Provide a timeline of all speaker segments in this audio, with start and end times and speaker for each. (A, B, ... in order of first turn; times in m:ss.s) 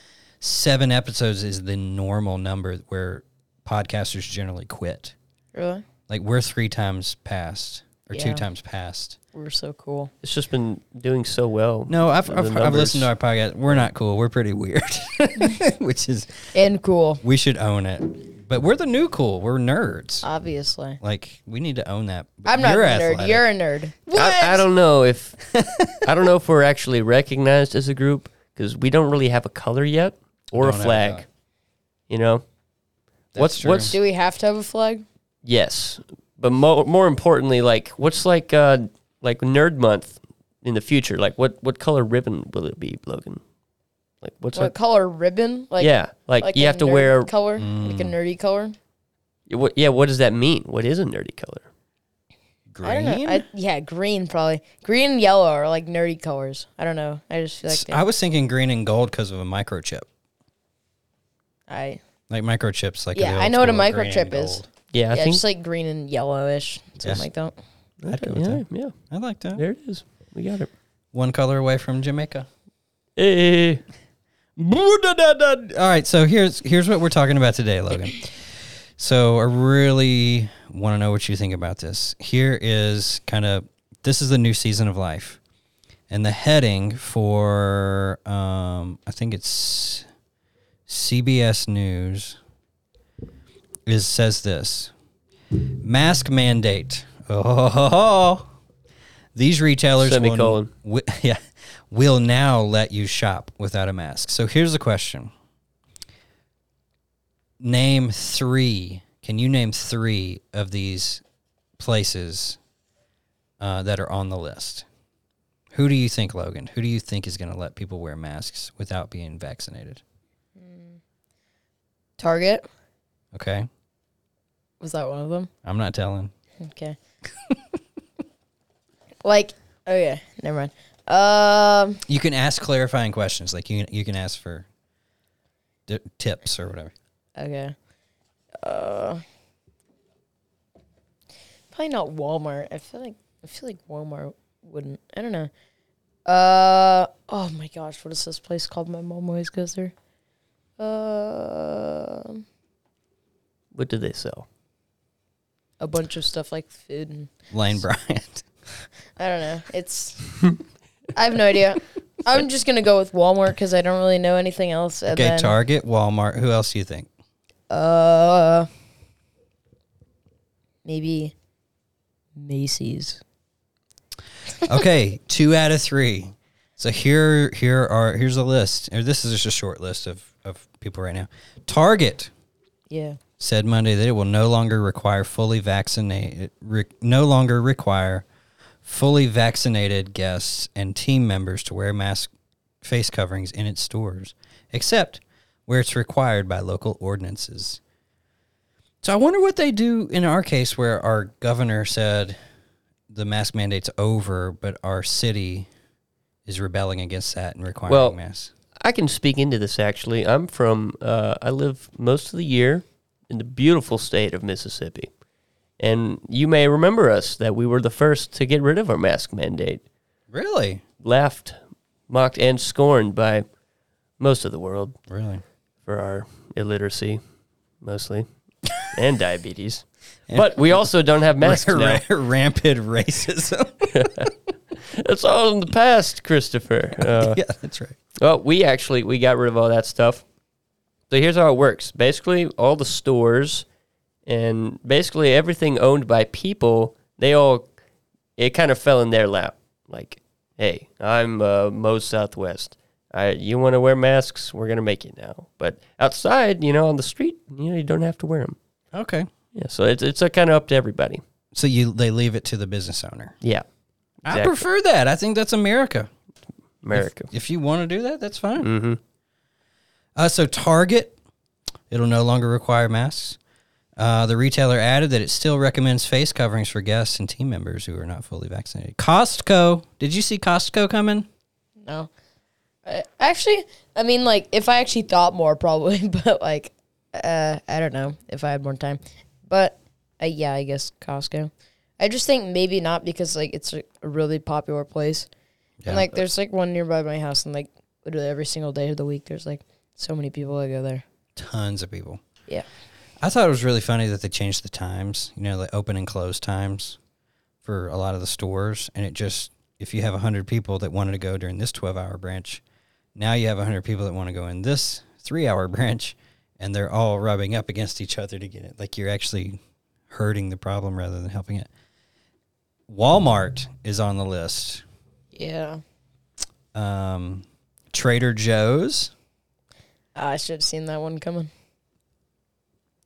0:00.4-0:05.1 A
0:05.5-0:05.8 B
0:06.1-0:09.2 A
0:08.1-0:08.4 B
0:09.3-0:10.1 B
0:10.2-0:13.1 C
0:11.9-0:16.5 A
0:16.5-0:17.2 B
0:17.2-0:20.2 A
0:20.2-0:21.0 B
0:21.0-0:23.4 A
0:22.4-0:24.0 B
0:24.0-0:24.7 A
0:24.1-0:25.4 C
0:25.5-0:26.1 A
0:26.0-0:31.2 C
0:30.6-0:31.2 A
0:32.1-0:32.4 C
0:33.3-0:33.9 A
0:33.4-0:34.0 C
0:33.8-0:35.0 B
0:35.4-0:43.4 C
0:44.2-0:44.7 C
0:44.6-0:48.8 B
0:45.8-0:47.3 C
0:47.6-0:48.1 A
0:49.5-0:51.7 C
0:52.7-0:53.4 A
0:52.8-0:58.0 B
0:57.7-1:00.1 A
1:01.7-1:02.0 B
1:02.3-1:04.6 A
1:03.1-1:07.6 B
1:04.9-1:05.4 C
1:08.0-1:08.9 C
1:08.1-1:09.6 A
1:09.6-1:10.7 C
1:11.1-1:12.5 A
1:13.2-1:13.8 C
1:14.6-1:25.4 A
1:26.1-1:30.0 A
1:30.9-1:32.4 A
1:33.8-1:34.9 A
1:35.8-1:38.4 A
1:39.3-1:45.3 A
1:40.0-1:40.7 C
1:47.6-1:51.2 A
1:51.8-1:52.6 A
1:53.6-1:54.8 A
1:55.7-2:00.0 A
2:00.6-2:01.0 B
2:02.2-2:02.7 B
2:03.3-2:03.7 A
2:04.8-2:05.5 B
2:05.6-2:06.3 A
2:06.6-2:07.0 B
2:09.2-2:12.0 B
2:12.1-2:14.7 A
2:15.9-2:16.9 A
2:17.4-2:17.7 B
2:18.6-2:19.2 B
2:21.7-2:25.5 B
2:26.2-2:29.9 B
2:30.8-2:32.4 B
2:33.7-2:34.4 C
2:35.8-2:37.3 B
2:37.5-2:38.4 A
2:39.2-2:40.3 B
2:41.1-2:45.5 B
2:45.1-2:47.1 A
2:47.7-2:48.7 B
2:50.8-2:51.3 B
2:52.4-2:53.2 B
2:54.6-3:02.3 A
3:02.9-3:03.2 B
3:03.4-3:08.2 A
3:08.8-3:12.3 A
3:12.8-3:17.8 A
3:19.0-3:22.4 A
3:23.1-3:25.7 A
3:26.4-3:28.5 A
3:27.9-3:28.2 C
3:28.8-3:35.1 C
3:35.8-3:39.8 C
3:40.3-3:40.8 A
3:41.0-3:41.6 C
3:42.1-3:43.4 C
3:44.2-3:45.0 C
3:45.1-3:45.4 A
3:45.8-3:47.2 C
3:47.8-3:48.2 C
3:48.8-3:52.0 C
3:50.3-3:50.6 A
3:51.4-3:54.3 A
3:53.9-3:57.4 C
3:57.0-3:58.0 A
3:58.2-4:00.2 C
4:01.1-4:03.6 C
4:04.2-4:07.6 C
4:08.4-4:18.6 C
4:18.9-4:19.3 A
4:19.5-4:21.2 C
4:21.5-4:23.4 A
4:24.2-4:24.6 C
4:24.2-4:26.1 A
4:26.8-4:27.3 C
4:26.9-4:28.7 A
4:28.6-4:29.0 C
4:30.2-4:31.2 A
4:31.9-4:33.4 A
4:34.0-4:41.3 A
4:42.8-4:55.3 B
4:55.8-4:56.2 A
4:55.9-5:01.0 B
5:01.4-5:02.2 A
5:03.2-5:07.0 A
5:07.6-5:12.6 A
5:13.2-5:21.7 A
5:22.9-5:24.8 A
5:25.3-5:25.8 B
5:26.7-5:29.1 A
5:30.2-5:31.5 B